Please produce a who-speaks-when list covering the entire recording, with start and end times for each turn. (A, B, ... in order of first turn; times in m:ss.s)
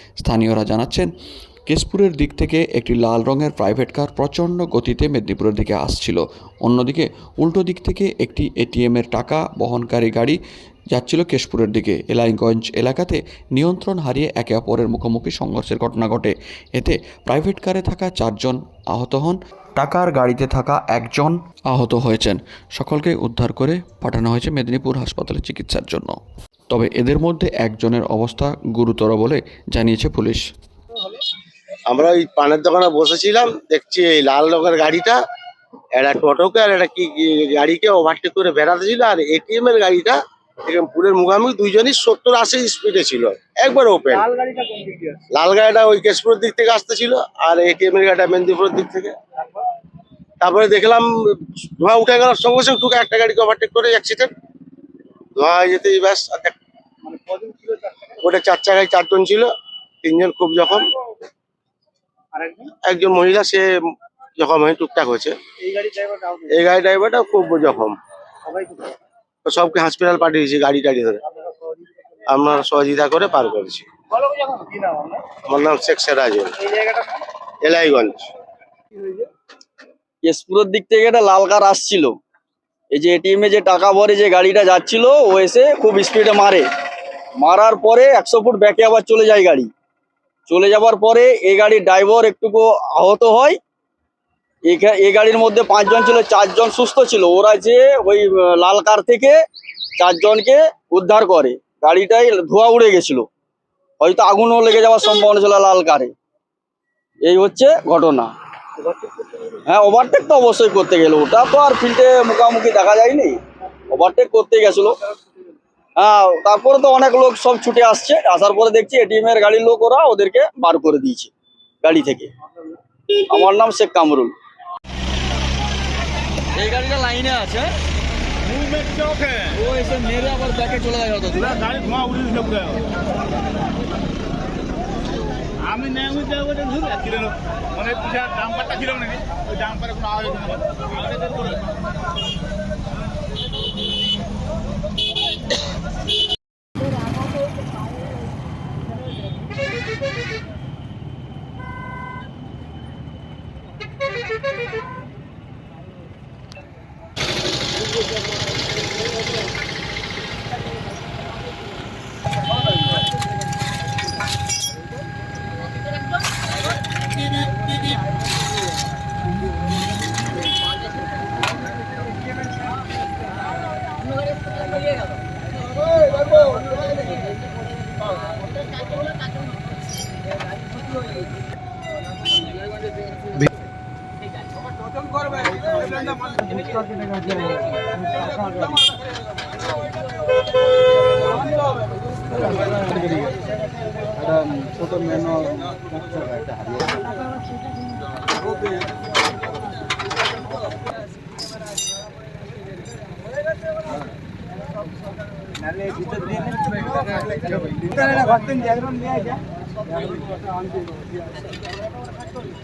0:00.2-0:01.1 A
0:01.7-0:10.4 A
0:10.9-0:26.2 A
0:26.7-0:30.4 A
0:31.9-0:35.2 B
0:36.0-0:44.3 B
0:44.2-0:45.2 C
0:45.3-0:49.1 B
0:50.4-0:54.3 B
0:55.4-0:56.6 B
0:57.0-0:58.2 C
0:58.2-0:59.5 B
1:00.0-1:00.9 B
1:02.3-1:02.7 C
1:02.8-1:03.7 B
1:04.4-1:05.4 B
1:05.7-1:06.5 C
1:06.5-1:08.0 B
1:08.5-1:08.8 C
1:09.4-1:11.2 B
1:12.3-1:13.9 B
1:14.2-1:15.3 C
1:15.4-1:16.7 B
1:16.8-1:17.2 C
1:17.6-1:18.3 B
1:20.2-1:22.1 D
1:22.9-1:26.6 D
1:27.4-1:29.7 D
1:30.5-1:33.6 D
1:34.6-1:39.4 D
1:40.0-1:43.3 D
1:44.0-1:46.1 D
1:47.2-1:48.3 D
1:49.2-1:49.5 C
1:49.6-1:53.4 D
1:53.9-1:55.0 D
1:56.0-2:01.3 D
2:01.8-2:02.3 D
2:03.1-2:04.3 D
2:06.5-2:07.7 D
2:08.5-2:09.5 E
2:09.5-2:11.8 D
2:11.8-2:12.8 E
2:15.6-2:21.8 E
3:14.6-3:14.9 C
3:25.8-3:26.7 C
3:27.8-3:29.3 C